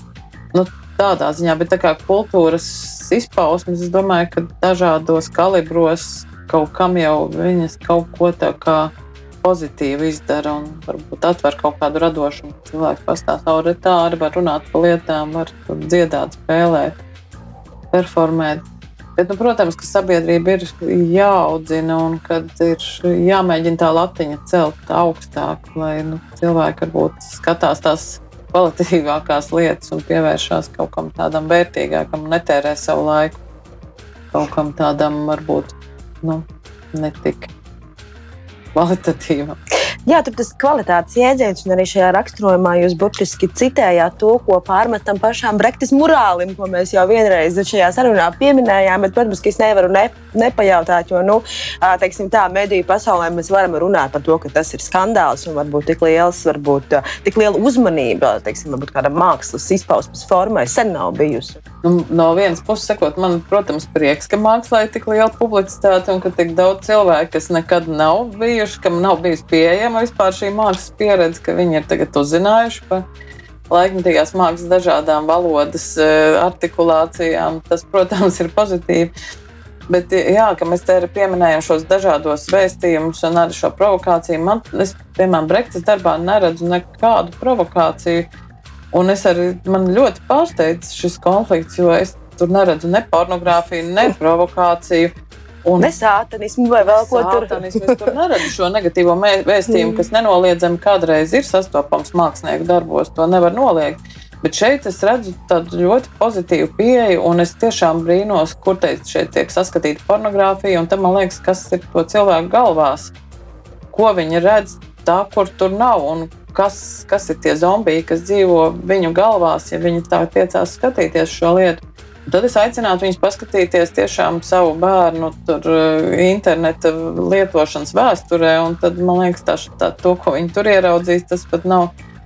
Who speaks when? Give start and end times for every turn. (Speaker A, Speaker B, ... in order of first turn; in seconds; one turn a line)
Speaker A: 0.5-17.0
Speaker A: 17.9-18.6
Speaker A: 19.2-33.4
Speaker A: 34.3-37.5
Speaker A: 38.8-39.6
Speaker B: 40.1-61.6
Speaker A: 61.8-73.1
Speaker A: 73.7-79.1
Speaker A: 79.9-88.3
Speaker A: 88.9-95.1
Speaker A: 95.6-95.9
Speaker B: 95.8-98.0
Speaker A: 96.8-113.1
Speaker B: 99.7-100.0
Speaker A: 113.9-131.9